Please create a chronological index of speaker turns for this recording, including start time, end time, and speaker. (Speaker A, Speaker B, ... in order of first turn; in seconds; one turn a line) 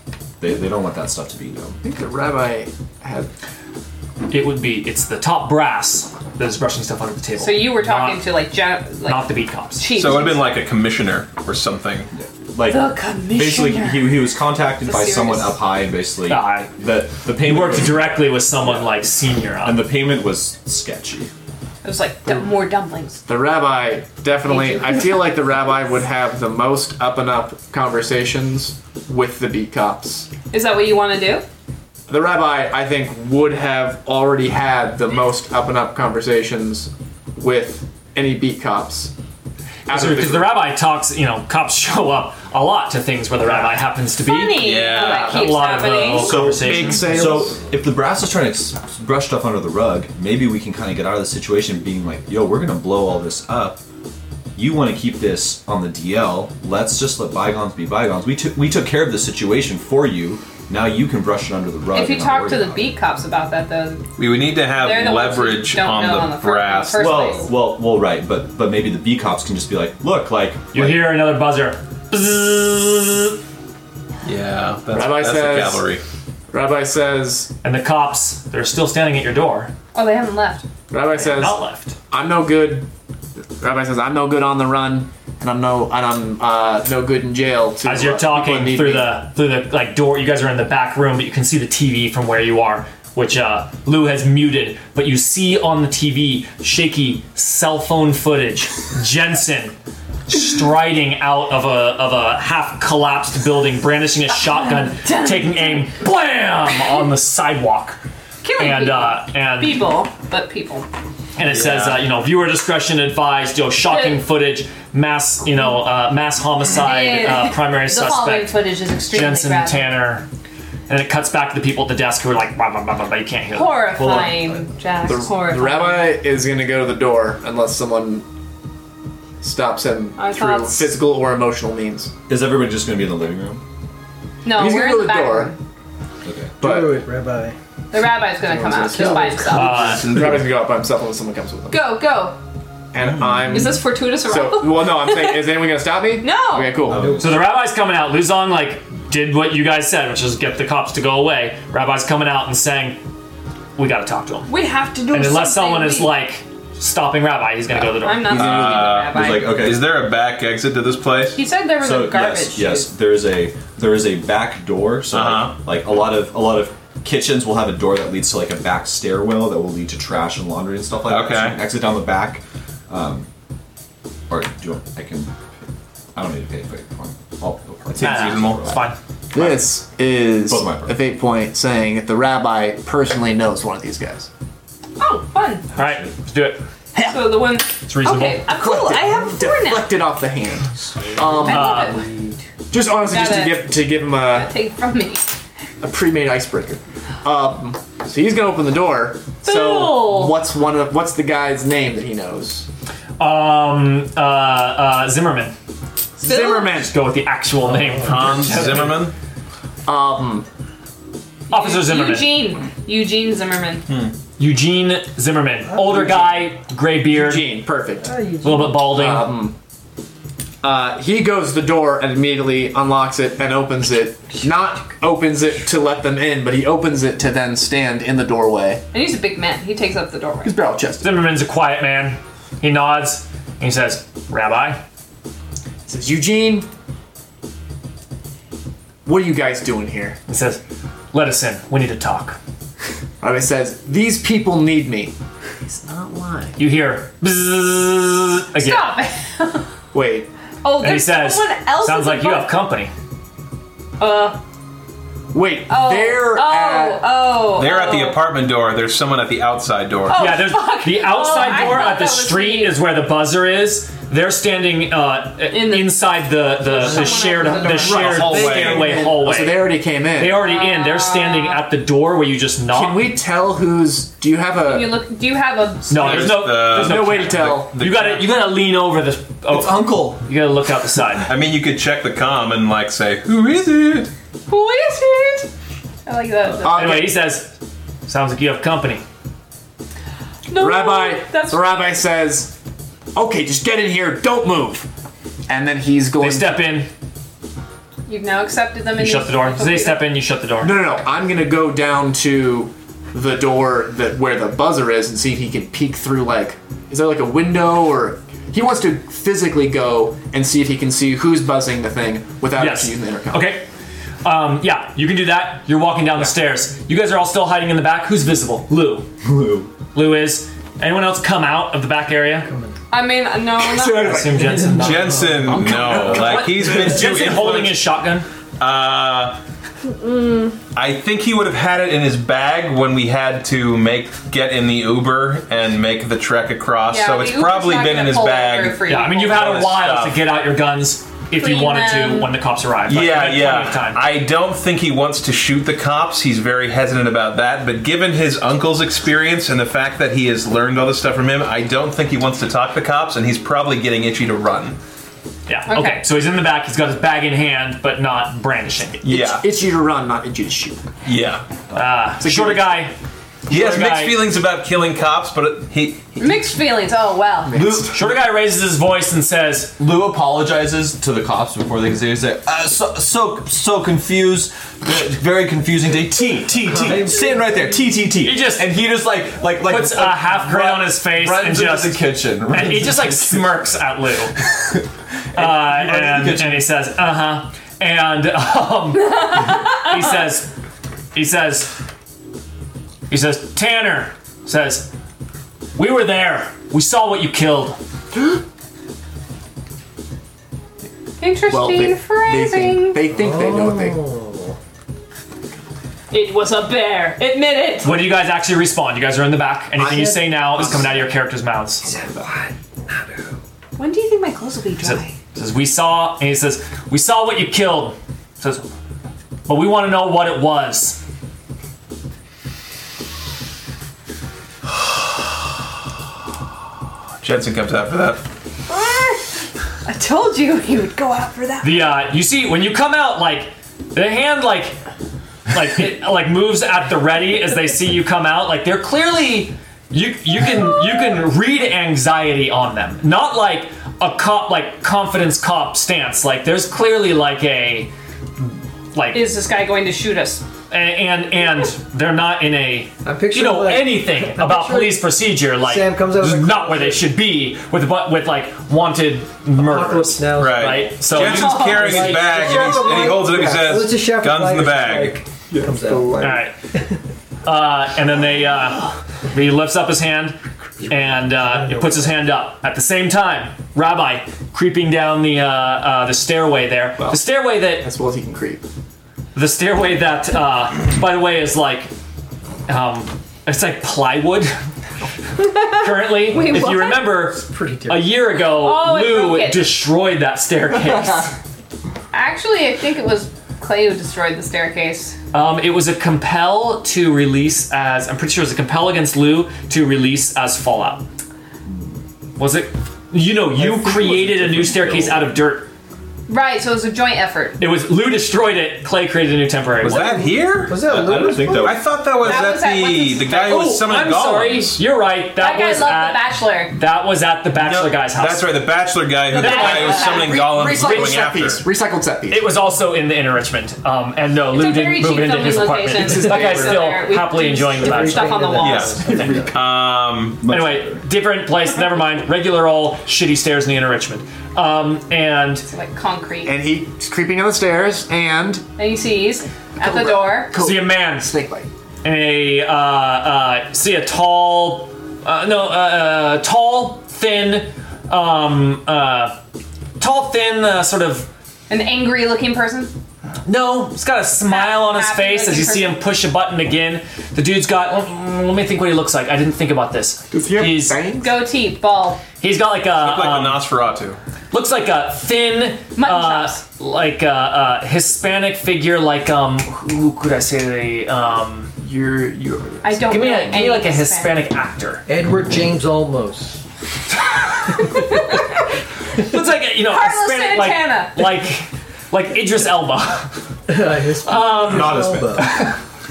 Speaker A: 0.4-1.8
Speaker B: 1.8-3.3
Speaker C: 4.3-8.3
Speaker D: 7.4-10.6
Speaker C: 9.0-9.9
Speaker E: 9.9-12.1
Speaker A: 12.1-19.0
Speaker D: 12.7-15.6
Speaker C: 16.3-16.7
Speaker C: 17.4-19.9
Speaker A: 19.6-21.3
Speaker D: 21.8-23.2
Speaker B: 23.2-30.3
Speaker D: 24.5-25.1
Speaker D: 30.5-31.4
Speaker B: 32.1-39.1
Speaker B: 39.9-40.6
Speaker C: 39.9-47.4
Speaker B: 43.4-43.8
Speaker D: 44.2-46.4
Speaker E: 44.5-45.4
Speaker B: 45.2-45.5
Speaker A: 46.2-53.8
Speaker B: 46.2-47.6
Speaker A: 54.5-62.9
Speaker D: 61.9-64.1
Speaker E: 64.2-67.2
Speaker D: 64.8-67.5
Speaker A: 67.0-71.2
Speaker C: 70.7-73.4
Speaker E: 74.2-76.0
Speaker B: 74.9-75.9
Speaker B: 76.5-77.5
Speaker C: 77.6-79.7
Speaker D: 79.9-80.6
Speaker B: 80.9-81.6
Speaker C: 81.1-82.0
Speaker B: 82.1-82.9
Speaker B: 83.6-89.2
Speaker C: 87.8-99.8
Speaker C: 100.3-108.0
Speaker D: 104.9-105.9
Speaker D: 108.4-110.9
Speaker C: 108.6-109.9
Speaker C: 111.4-118.6
Speaker E: 111.4-112.0
Speaker D: 113.9-114.2
Speaker D: 116.7-120.0
Speaker C: 119.1-120.3
Speaker C: 120.9-123.9
Speaker D: 123.5-126.2
Speaker B: 125.0-128.2
Speaker B: 129.4-132.1
Speaker D: 130.2-130.9
Speaker A: 132.3-133.6
Speaker D: 134.4-135.6
Speaker B: 134.5-135.5
Speaker A: 136.2-136.6
Speaker B: 136.6-137.0
Speaker F: 136.6-137.5
Speaker D: 137.9-140.0
Speaker B: 138.4-141.9
Speaker F: 138.9-139.4
Speaker C: 139.5-140.2
Speaker D: 141.7-142.3
Speaker B: 142.9-147.1
Speaker A: 143.0-143.8
Speaker D: 143.5-145.7
Speaker D: 146.2-146.8
Speaker F: 146.9-147.3
Speaker A: 146.9-147.4
Speaker C: 147.2-153.0
Speaker C: 153.8-154.5
Speaker D: 154.5-156.1
Speaker C: 155.1-158.4
Speaker D: 158.0-159.6
Speaker E: 158.3-161.4
Speaker A: 158.3-159.9
Speaker D: 161.3-162.9
Speaker A: 161.8-173.3
Speaker E: 165.1-165.6
Speaker E: 171.1-171.6
Speaker A: 174.3-175.3
Speaker A: 176.2-178.8
Speaker E: 177.9-178.8
Speaker C: 178.0-179.0
Speaker B: 179.3-184.3
Speaker A: 179.3-179.8
Speaker A: 180.4-181.0
Speaker D: 185.0-185.7
Speaker C: 185.8-186.6
Speaker B: 186.9-187.5
Speaker D: 187.1-189.9
Speaker C: 187.8-188.4
Speaker B: 188.5-191.9
Speaker F: 191.0-192.4
Speaker D: 191.2-192.0
Speaker C: 191.5-192.0
Speaker B: 192.7-194.5
Speaker D: 193.0-195.3
Speaker B: 195.8-202.7
Speaker D: 199.4-200.4
Speaker C: 203.2-205.5
Speaker B: 206.2-206.9
Speaker D: 206.2-206.8
Speaker C: 206.8-209.0
Speaker F: 207.8-208.2
Speaker E: 208.0-209.1
Speaker B: 209.8-210.5
Speaker D: 211.5-213.8
Speaker C: 211.5-212.3
Speaker E: 213.9-214.1
Speaker C: 214.4-217.6
Speaker F: 215.7-216.3
Speaker B: 217.1-218.2
Speaker F: 218.0-218.8
Speaker C: 218.4-219.4
Speaker B: 218.7-219.5
Speaker B: 220.6-228.8
Speaker D: 228.9-230.6
Speaker B: 230.4-231.2
Speaker C: 231.0-234.8
Speaker B: 235.9-236.7
Speaker B: 239.1-240.2
Speaker C: 240.3-240.6
Speaker C: 241.1-242.4
Speaker B: 243.2-245.1
Speaker B: 245.7-246.6
Speaker C: 246.6-249.0
Speaker D: 248.6-249.7
Speaker B: 249.9-250.3
Speaker D: 250.6-252.6
Speaker C: 250.8-252.9
Speaker D: 254.0-254.4
Speaker B: 255.3-257.0
Speaker D: 255.7-258.2
Speaker E: 257.5-260.3
Speaker D: 260.1-262.8
Speaker C: 260.1-273.1
Speaker D: 265.5-266.1
Speaker D: 266.6-268.2
Speaker F: 266.8-268.4
Speaker B: 267.6-270.4
Speaker E: 267.8-269.0
Speaker D: 270.3-271.6
Speaker B: 272.7-275.0
Speaker D: 274.6-276.4
Speaker C: 275.9-281.3
Speaker E: 275.9-278.3
Speaker B: 276.5-277.8
Speaker A: 279.5-280.2
Speaker E: 281.3-284.1
Speaker D: 284.5-285.5
Speaker D: 286.1-287.0
Speaker B: 286.5-287.2
Speaker C: 286.6-287.5
Speaker C: 288.1-289.0
Speaker D: 290.5-291.8
Speaker B: 290.5-292.5
Speaker B: 293.1-294.9
Speaker B: 295.5-296.7
Speaker C: 296.2-296.9
Speaker D: 298.1-300.0
Speaker C: 299.0-300.8
Speaker B: 300.6-313.5
Speaker C: 312.5-313.7
Speaker C: 314.2-319.1
Speaker A: 319.2-319.7
Speaker C: 319.9-322.5
Speaker F: 322.4-322.8
Speaker D: 322.9-324.4
Speaker B: 323.6-324.9
Speaker C: 324.0-328.2
Speaker F: 324.5-325.5
Speaker E: 324.8-327.8
Speaker B: 325.4-327.0
Speaker E: 328.6-329.4
Speaker D: 330.0-330.5
Speaker E: 330.8-340.2
Speaker D: 336.9-339.5
Speaker C: 338.9-344.0
Speaker D: 341.3-342.3
Speaker E: 342.9-354.8
Speaker C: 355.5-359.0
Speaker D: 355.7-356.0
Speaker E: 359.0-359.4
Speaker B: 359.0-360.8
Speaker E: 361.1-361.4
Speaker C: 361.7-362.9
Speaker B: 362.2-362.8
Speaker E: 363.5-366.4
Speaker C: 363.5-364.2
Speaker D: 366.2-367.6
Speaker B: 367.4-368.0
Speaker A: 367.5-368.2
Speaker C: 367.9-369.7
Speaker A: 369.8-383.6
Speaker F: 376.7-377.5
Speaker C: 378.2-378.7
Speaker C: 379.6-384.4
Speaker A: 385.3-386.7
Speaker C: 385.3-390.5
Speaker D: 389.0-390.0
Speaker C: 391.1-391.7
Speaker C: 393.1-394.9
Speaker C: 395.8-397.8
Speaker D: 401.2-403.0
Speaker B: 401.5-404.0
Speaker F: 403.1-404.6
Speaker D: 406.1-408.1
Speaker C: 407.8-411.9
Speaker B: 409.8-411.1
Speaker F: 409.9-410.2
Speaker B: 411.8-412.4
Speaker D: 413.8-415.1
Speaker C: 414.8-418.7
Speaker C: 419.5-421.0
Speaker E: 427.2-428.2
Speaker D: 428.7-432.0
Speaker C: 431.6-434.8
Speaker C: 435.5-449.3
Speaker D: 440.6-441.1
Speaker D: 449.1-450.4
Speaker C: 450.7-462.9
Speaker F: 453.0-457.1
Speaker F: 459.6-466.5
Speaker E: 460.4-465.3
Speaker D: 461.1-462.8
Speaker B: 465.5-466.4
Speaker C: 466.2-466.5
Speaker C: 467.4-477.9
Speaker F: 471.1-472.1
Speaker B: 477.0-478.6
Speaker C: 479.3-481.9
Speaker C: 482.7-484.5
Speaker C: 485.6-491.3
Speaker D: 486.2-487.0
Speaker F: 486.4-488.1
Speaker D: 488.4-489.7
Speaker D: 492.1-495.2
Speaker C: 495.3-501.0
Speaker C: 502.4-505.7
Speaker A: 504.4-505.2
Speaker D: 506.3-507.6
Speaker C: 507.6-510.1
Speaker E: 509.8-514.8
Speaker F: 509.9-511.9
Speaker A: 510.7-512.3
Speaker D: 512.2-513.7
Speaker C: 513.4-518.6
Speaker D: 515.4-516.7
Speaker E: 517.5-521.6
Speaker D: 519.3-520.4
Speaker C: 519.3-521.2
Speaker B: 519.7-522.5
Speaker C: 522.3-529.5
Speaker D: 524.5-529.2
Speaker F: 526.0-526.5
Speaker B: 526.1-526.8
Speaker F: 527.5-529.6
Speaker E: 528.6-530.5
Speaker A: 530.4-531.0
Speaker C: 530.5-535.7
Speaker D: 535.7-536.5
Speaker B: 536.5-538.7
Speaker D: 538.8-540.5
Speaker B: 539.8-541.7
Speaker C: 540.5-541.3
Speaker C: 542.0-549.4
Speaker C: 550.0-551.3
Speaker D: 551.7-552.9
Speaker C: 553.5-561.0
Speaker D: 554.5-556.0
Speaker B: 560.3-561.3
Speaker D: 561.2-562.2
Speaker C: 562.4-563.7
Speaker E: 563.0-564.2
Speaker C: 564.5-571.7
Speaker D: 566.0-566.6
Speaker B: 571.8-573.6
Speaker D: 572.8-574.4
Speaker C: 573.1-575.0
Speaker F: 575.1-576.6
Speaker D: 578.0-578.4
Speaker C: 579.2-583.4
Speaker D: 579.8-581.3
Speaker F: 583.7-585.6
Speaker C: 584.2-585.4
Speaker A: 584.7-585.5